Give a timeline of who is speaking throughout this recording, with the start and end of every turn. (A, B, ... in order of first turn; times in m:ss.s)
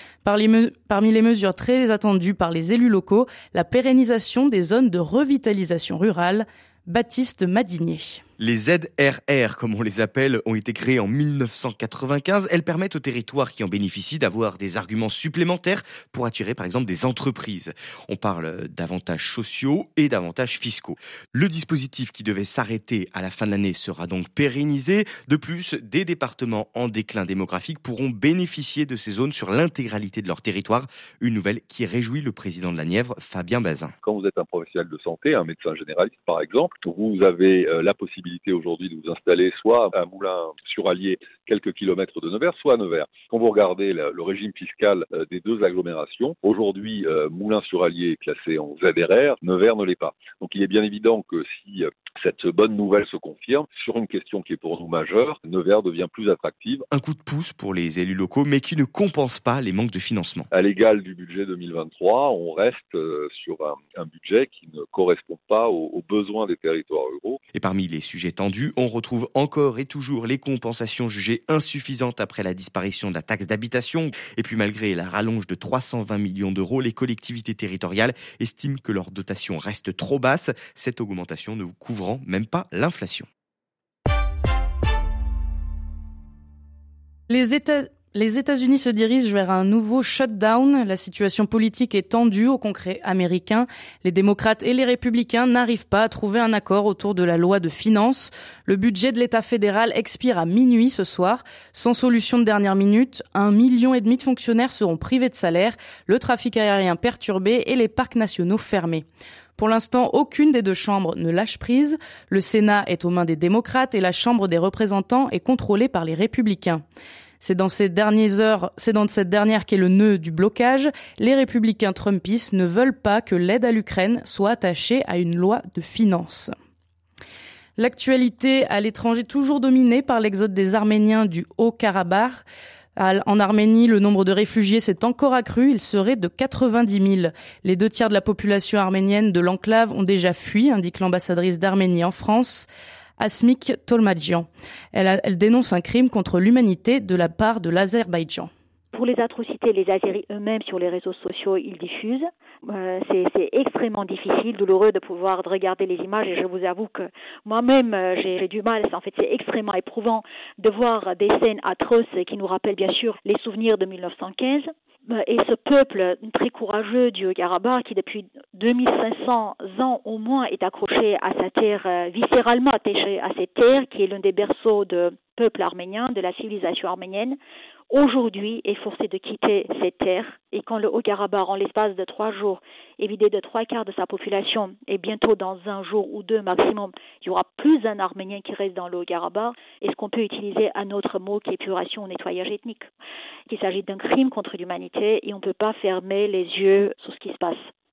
0:00.2-0:08.2 A
0:08.4-0:33.9 B
0:34.0-0:56.9 C
0:56.9-1:00.5 B
1:00.5-1:07.4 C
1:07.5-1:23.3 B
1:27.3-1:49.0 A
1:49.6-1:56.8 A
1:57.4-2:06.5 A
2:07.8-2:12.4 A
2:13.0-2:28.5 A
2:28.9-2:57.4 D
2:57.9-3:12.8 D
3:13.5-3:17.6 D